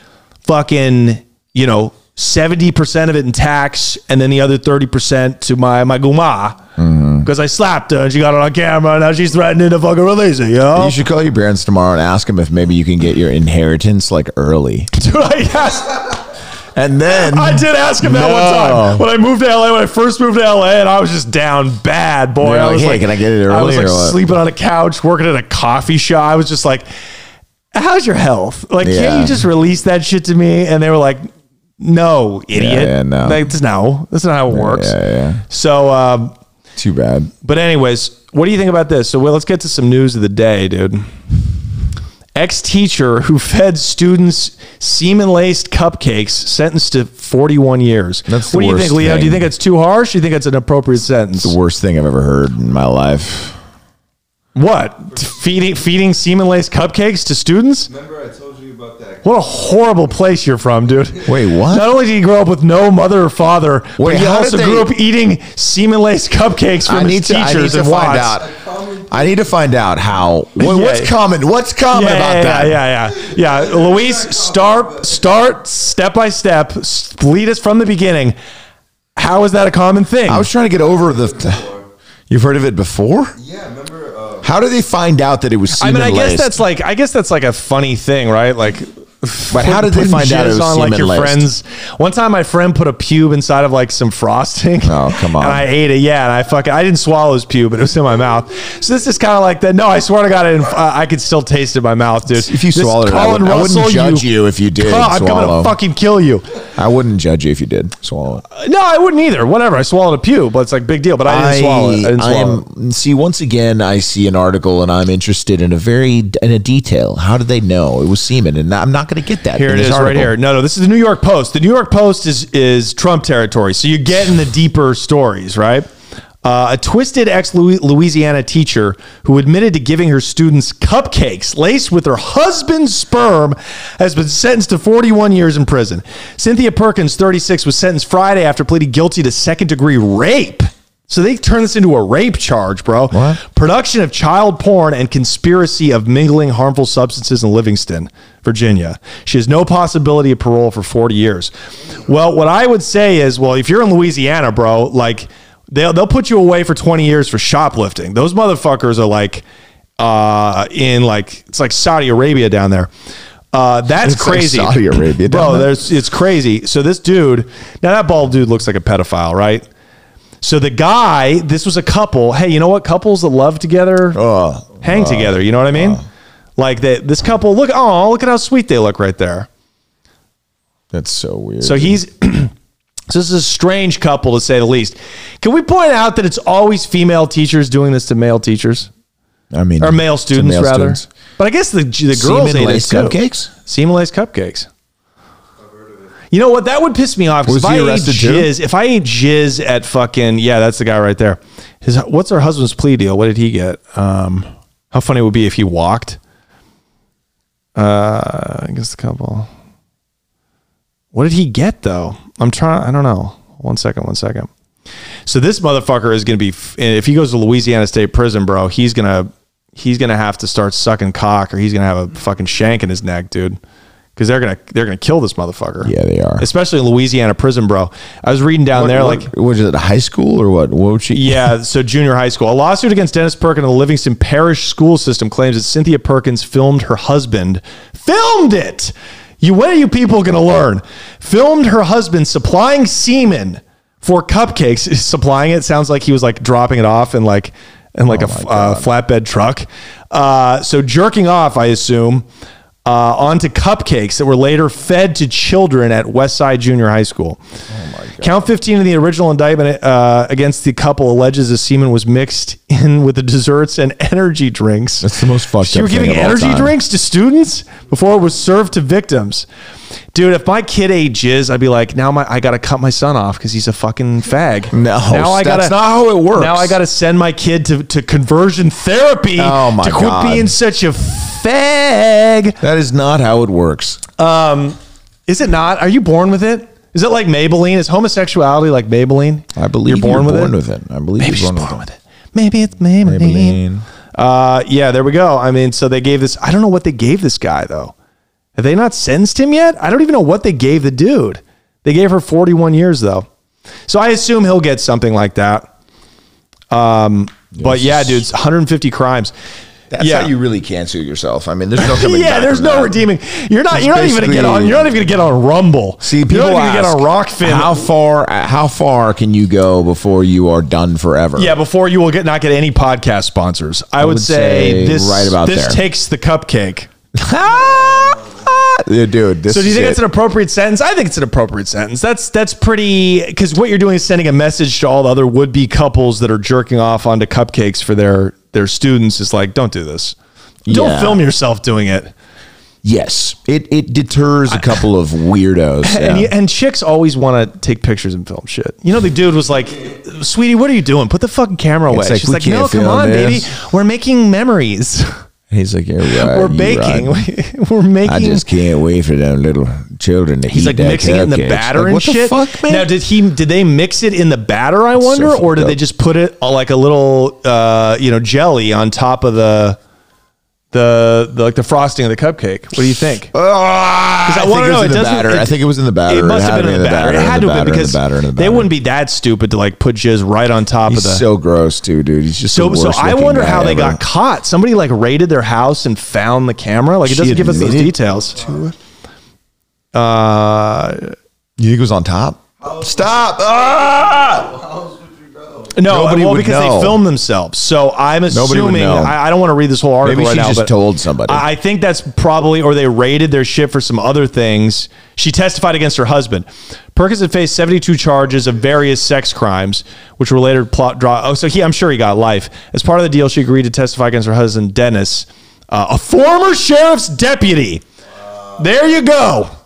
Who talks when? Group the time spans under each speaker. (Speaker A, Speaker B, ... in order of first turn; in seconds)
Speaker A: 0.4-6.6, 7.2-11.0, 14.9-16.2, 17.1-26.9, 27.7-31.3, 31.8-35.0, 35.5-36.3, 37.4-41.1, 42.3-51.5, 54.5-57.9, 59.2-68.4, 70.6-71.1, 71.9-78.3, 79.2-80.5, 85.8-106.5, 108.5-112.6, 119.5-125.9, 126.4-151.5, 152.1-159.4, 160.0-162.9, 163.5-169.7, 170.4-174.2, 174.8-176.0, 176.6-179.5, 181.6-182.5, 183.1-188.9, 189.8-194.7, 196.3-206.2, 207.8-209.5, 211.1-214.5, 215.2-223.6, 224.2-229.3, 231.1-252.2, 252.8-257.4, 258.2-269.5, 270.1-275.7, 276.3-282.6, 284.2-290.5, 291.2-293.6, 294.1-297.9, 298.6-303.3, 303.9-305.7, 306.7-309.3, 310.0-310.3, 311.8-317.8, 321.4-326.9, 329.5-340.1, 340.7-342.1, 345.8-355.1, 356.1-358.4, 360.5-369.8, 370.7-373.3, 374.2-375.5, 376.1-381.2, 382.5-388.4, 389.9-391.1, 395.7-400.7, 401.2-417.8, 418.6-419.5
Speaker B: 6.8-7.3, 10.7-14.9, 16.7-19.0, 22.4-24.2, 28.8-29.4, 32.5-33.4, 34.5-35.4, 36.8-37.3, 48.3-49.5, 51.4-53.6, 61.2-61.9, 64.0-64.9, 66.8-68.5, 69.1-72.8, 80.3-81.7, 82.3-83.3, 84.4-86.6, 89.5-91.5, 94.8-95.7, 102.3-105.8, 106.7-108.4, 111.2-120.3, 143.1-143.4, 164.0-165.7, 174.1-176.0, 180.9-182.0, 189.5-191.1, 192.1-193.5, 197.4-198.5, 225.8-226.4, 228.7-231.5, 248.1-248.9, 257.7-258.4, 265.0-266.7, 274.7-276.8, 279.4-280.5, 282.6-284.0, 289.5-291.8, 293.0-293.8, 307.5-308.2, 309.9-313.0, 313.7-314.9, 316.0-321.5, 324.0-325.8, 327.1-330.0, 340.6-341.2, 342.8-346.3, 351.9-353.5, 355.5-357.2, 358.0-362.9, 365.0-365.8, 373.3-378.7, 380.9-384.0, 387.0-388.7, 391.6-394.5, 395.8-397.0, 398.3-399.2, 400.0-401.4
Speaker C: 57.9-59.8, 68.3-69.5, 73.2-75.2, 80.8-81.8, 83.4-84.5, 195.6-196.1, 392.6-395.7